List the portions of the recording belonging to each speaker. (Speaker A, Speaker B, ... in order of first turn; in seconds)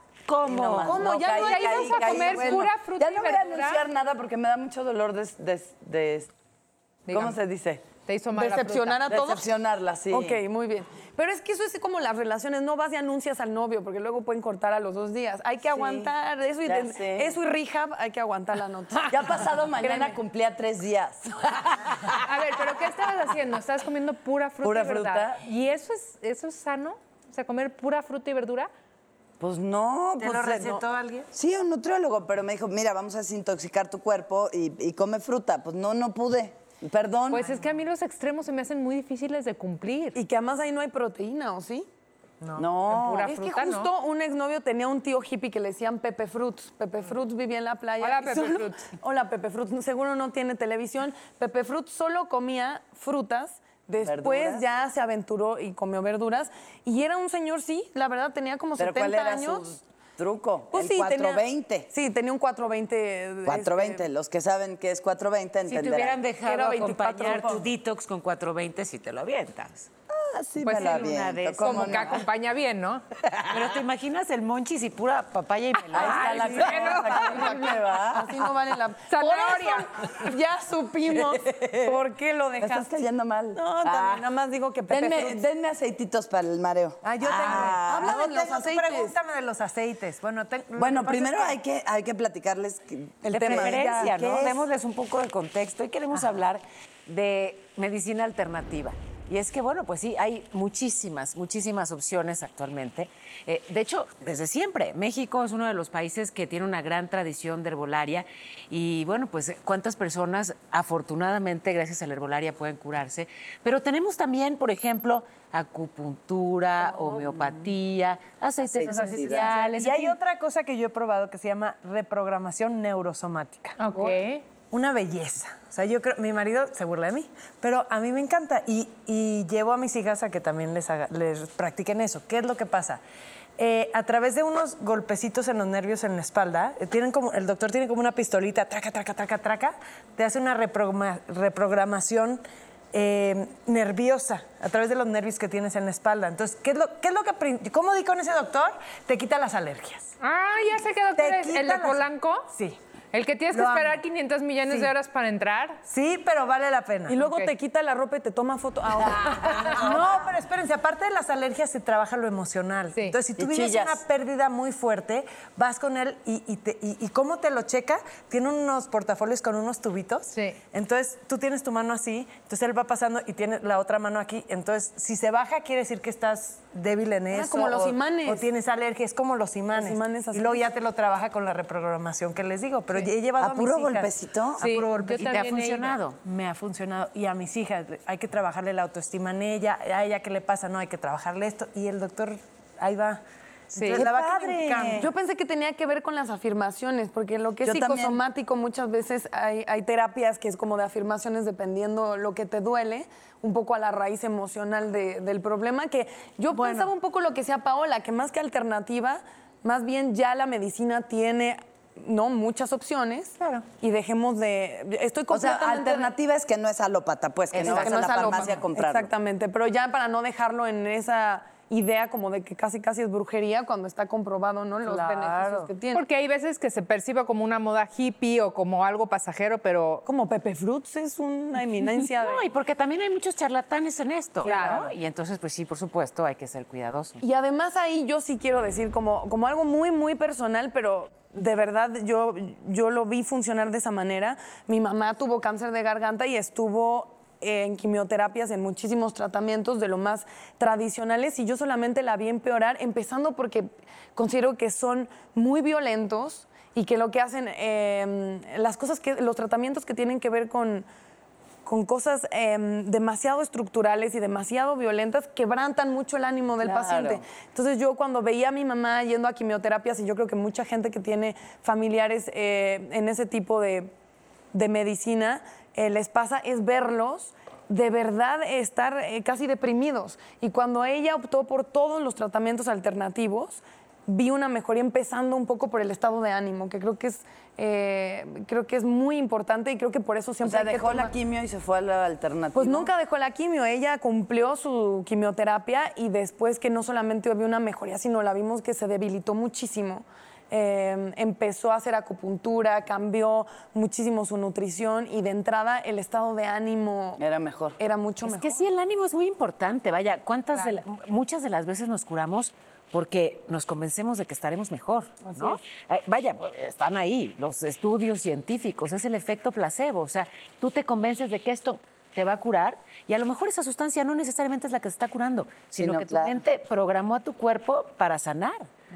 Speaker A: 0.3-1.1, 65.7-69.9, 70.6-72.0, 73.5-76.7, 93.3-120.1, 184.6-186.2, 217.5-218.0, 224.9-225.7, 232.2-237.2, 308.2-328.7
Speaker B: 0.4-6.3, 7.1-7.8, 9.1-10.4, 15.7-16.1, 16.6-17.4, 19.1-22.2, 24.6-25.4, 29.4-37.4, 42.6-43.3, 54.0-54.6, 58.8-61.9, 63.4-66.2, 70.1-72.2, 75.9-78.4, 81.5-81.9, 82.6-84.2, 84.9-88.2, 90.8-94.6, 118.7-119.4, 163.4-164.0, 183.4-184.6, 193.9-195.1, 197.6-198.2, 215.3-219.1, 266.6-267.2, 290.4-292.9, 307.2-307.8, 325.8-326.4
Speaker C: 0.9-3.8, 7.1-7.3, 8.1-9.1, 22.1-28.7, 37.3-40.1, 42.9-43.9, 48.0-48.8, 71.6-73.0, 76.5-77.8, 79.1-79.9, 118.9-119.6, 123.8-124.4, 150.2-152.5, 153.1-155.8, 157.2-157.5, 170.3-170.6, 184.6-186.0, 193.7-194.0, 213.4-213.6, 225.9-230.0, 234.4-234.9, 310.5-310.8
Speaker D: 0.9-2.6, 8.3-9.4, 10.1-19.2, 19.8-20.2, 40.1-41.9, 43.2-59.6, 60.7-64.0, 66.4-67.7, 78.1-82.8, 83.5-85.4, 87.7-89.1, 157.1-159.9, 177.3-178.5, 179.7-180.6, 194.9-216.1, 217.6-226.0, 230.1-232.4, 237.2-260.9, 261.6-273.9, 274.5-291.1, 292.5-307.2, 307.8-308.6, 315.2-315.6
Speaker E: 30.2-31.3, 42.4-42.7, 87.0-91.5, 93.3-94.0, 119.0-124.1, 124.7-133.0, 133.6-142.4, 142.9-150.1, 151.1-152.8, 153.5-154.0, 155.9-157.2, 159.5-184.1, 184.8-185.4, 186.2-193.2, 193.7-195.1, 206.5-206.9